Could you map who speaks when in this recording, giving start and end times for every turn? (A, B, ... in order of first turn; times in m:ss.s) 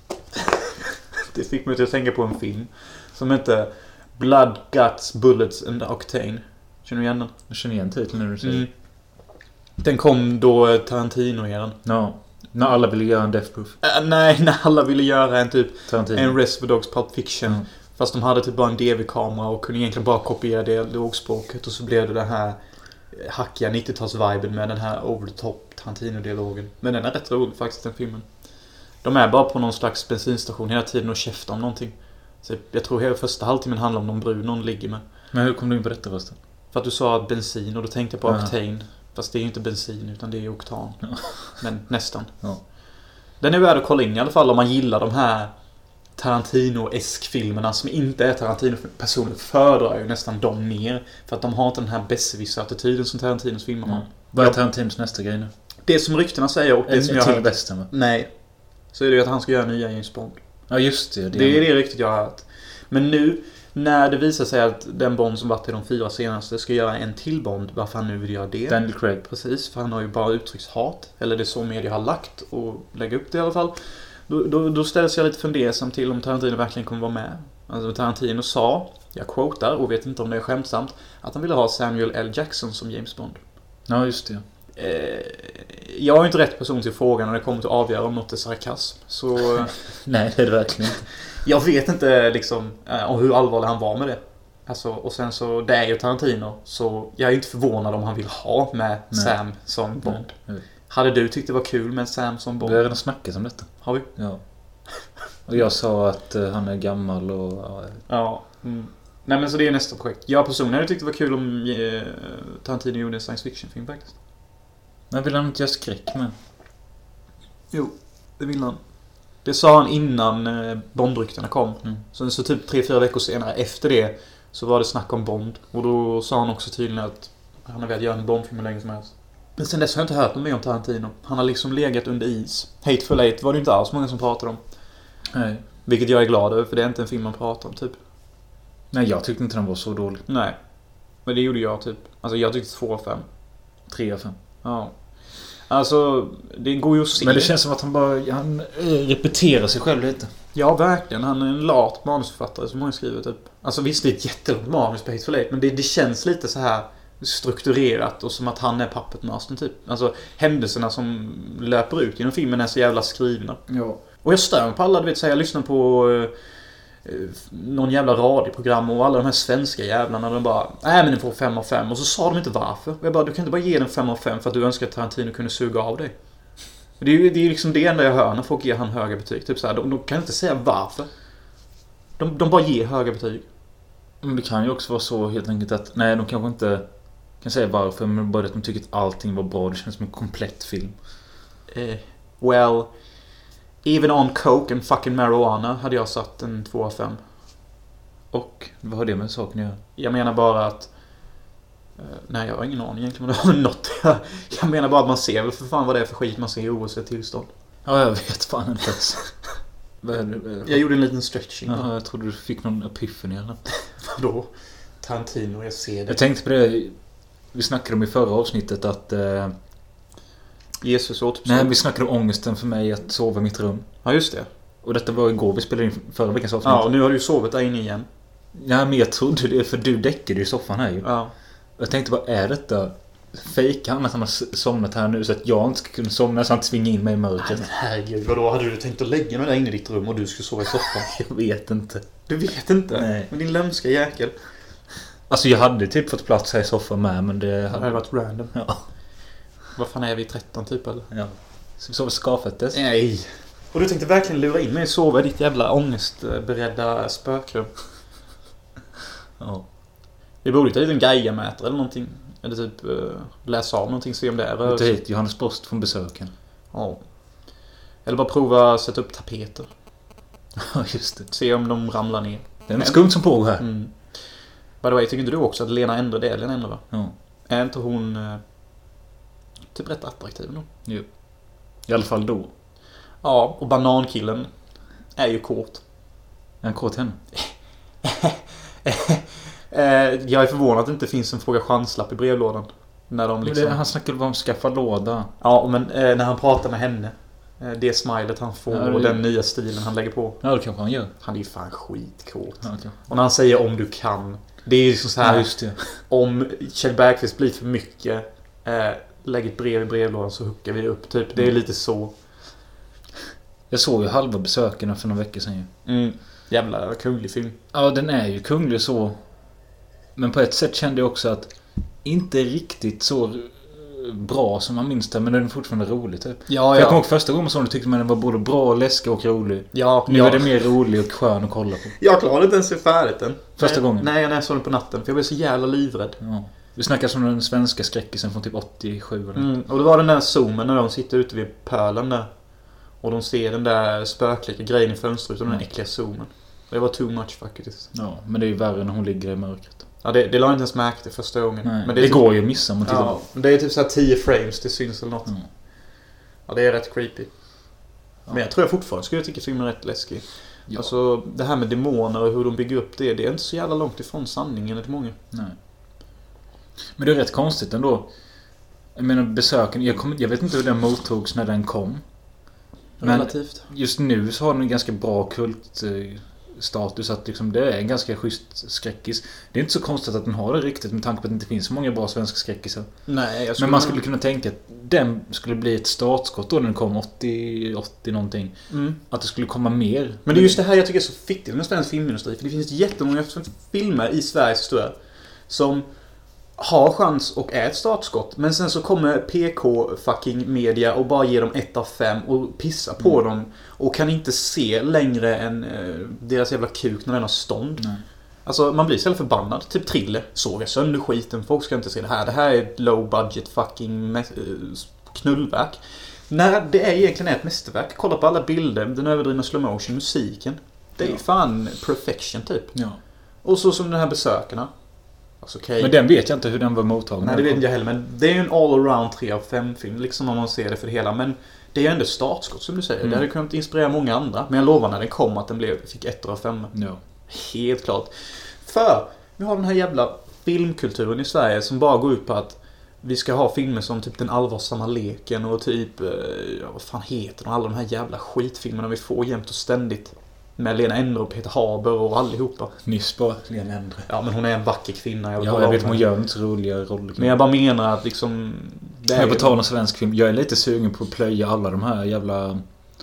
0:01.3-0:07.3 A
0:07.5-0:08.6 B
0:08.4-0:08.7 A
0:09.8-0:11.8 A
0:11.8-0:13.8 B
0:13.8-0:28.3 A
0:15.9-0:16.4 B
0:29.0-0:35.0 A
0:35.3-0:36.4 B
0:36.7-0:42.3 A
0:38.2-0:38.5 B
0:41.0-0:41.5 B
0:43.4-0:45.5 A
0:46.2-0:54.6 A
0:53.8-0:55.5 B
0:55.8-0:58.3 A
0:56.9-0:57.9 B
0:58.9-1:00.4 A
1:00.7-1:01.7 B
1:01.3-1:13.8 A
1:08.7-1:09.2 B
1:14.3-1:23.4 A
1:23.9-1:24.4 B
1:24.8-1:29.8 A
1:29.8-1:31.0 B
1:31.4-1:40.4 A
1:39.1-1:39.5 B
1:40.0-1:40.6 B
1:40.9-1:42.8 A
1:42.6-1:44.4 B
1:43.8-1:44.1 A
1:45.5-1:48.0 B
1:48.1-1:54.1 A
1:55.1-1:56.3 B
1:57.7-1:58.8 A
1:59.4-2:14.6 A
2:15.3-2:15.6 B
2:15.8-2:18.0 A
2:18.9-2:20.2 B
2:20.3-2:20.6 A
2:21.2-2:23.2 A
2:23.9-2:24.4 B
2:24.6-2:27.5 A
2:27.2-2:30.3 B
2:30.5-2:43.6 A
2:43.7-2:44.0 B
2:44.2-2:46.3 A
2:47.0-2:56.1 A
2:57.0-3:01.1 A
3:02.2-3:03.4 A
3:04.2-3:11.0 B
3:11.7-3:12.9 A
3:13.8-3:17.2 A
3:18.3-3:19.8 B
3:20.0-3:20.9 A
3:22.0-3:27.5 A
3:27.8-3:29.5 B
3:30.0-3:30.8 B
3:30.6-3:31.9 A
3:31.7-3:33.6 B
3:33.9-3:36.2 A
3:36.1-3:39.5 B
3:40.8-3:41.7 A
3:41.4-3:43.9 B
3:44.0-3:44.5 A
3:44.8-3:46.8 B
3:46.6-3:48.0 A
3:48.5-3:51.1 B
3:51.0-3:51.3 A
3:51.8-3:57.7 B
3:57.4-4:01.1 A
4:01.0-4:02.1 B
4:02.3-4:04.3 A
4:02.9-4:03.3 B
4:05.3-4:08.8 B
4:07.7-4:08.5 A
4:09.7-4:11.1 A
4:11.1-4:12.8 B
4:12.7-4:17.7 A
4:19.4-4:19.7 B
4:20.4-4:24.9 A
4:24.6-4:26.3 B
4:26.7-4:27.5 A
4:28.0-4:29.7 A
4:30.6-4:31.3 B
4:31.3-4:34.2 A
4:32.7-4:33.6 B
4:34.8-4:36.9 A
4:37.5-4:38.4 A
4:39.7-4:40.6 A
4:40.8-4:42.5 B
4:43.2-4:44.5 A
4:45.1-4:45.8 A
4:46.6-4:47.2 B
4:47.3-4:53.8 A
4:53.4-4:55.3 B
4:55.4-5:00.5 A
4:58.7-4:59.2 B
5:00.4-5:01.1 B
5:01.2-5:12.1 A
5:02.6-5:02.9 B
5:05.2-5:05.8 B
5:13.7-5:15.7 B
5:15.8-5:17.6 A
5:17.7-5:19.2 B
5:20.2-5:32.0 B
5:26.5-5:27.0 A
5:29.7-5:30.6 A
5:32.0-5:36.2 A
5:33.6-5:34.1 B
5:36.2-5:39.5 B
5:39.3-5:42.4 A
5:42.9-5:47.9 A
5:47.9-5:49.8 B
5:50.0-5:55.8 A
5:51.6-5:53.2 B
5:56.4-6:05.2 A
6:07.0-6:08.1 B
6:08.9-6:12.1 B
6:13.0-6:13.7 A
6:13.0-6:22.9 B
6:23.1-6:24.0 A
6:23.6-6:30.6 B
6:28.7-6:29.0 A
6:30.2-6:35.0 A
6:35.5-6:35.9 A
6:36.6-6:47.9 A
6:47.8-6:48.0 B
6:48.4-7:02.8 A
7:02.7-7:03.0 B
7:03.4-7:04.7 A
7:05.3-7:05.9 A
7:05.8-7:07.6 B
7:07.2-7:16.7 A
7:16.7-7:17.0 B
7:17.3-7:32.7 A
7:32.8-7:34.1 B
7:34.1-7:36.0 A
7:35.4-7:37.3 B
7:37.2-7:39.6 A
7:39.1-7:42.6 B